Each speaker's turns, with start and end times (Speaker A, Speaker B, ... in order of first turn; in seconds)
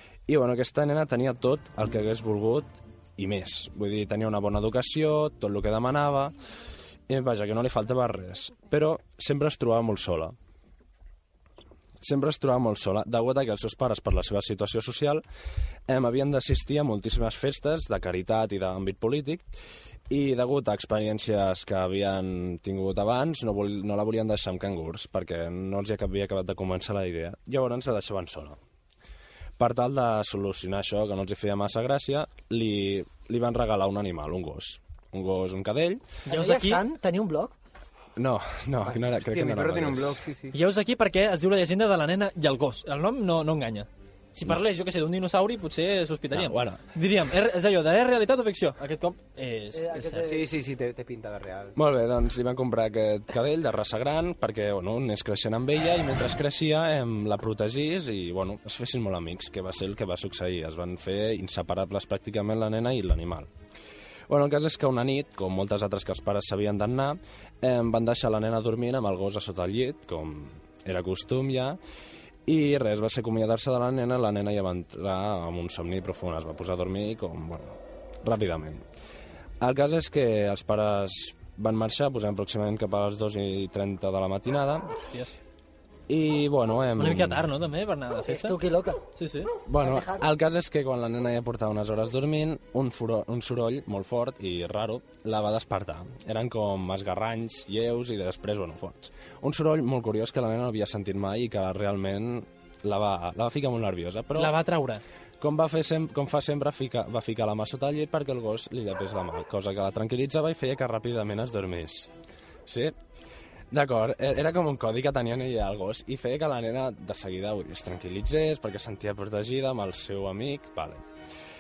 Speaker A: 0.3-6.3, 7.1-10.3, 12.0-15.2, 15.9-19.5, 20.1-28.6, 29.6-36.0, 38.2-40.2, 46.3-46.8, 51.8-63.5, 64.3-71.8, 72.5-78.8, 79.6-84.9, 86.1-87.5, 89.7-104.6, 105.4-112.1, 112.7-113.0, 113.7-121.0
Speaker B: 36.3-36.8, 40.5-50.3, 85.0-85.3, 87.0-88.6, 89.2-89.5, 104.4-105.0
Speaker C: 36.3-37.5, 49.7-50.5, 88.2-89.0, 89.8-90.2
Speaker D: 39.1-40.5, 50.2-51.8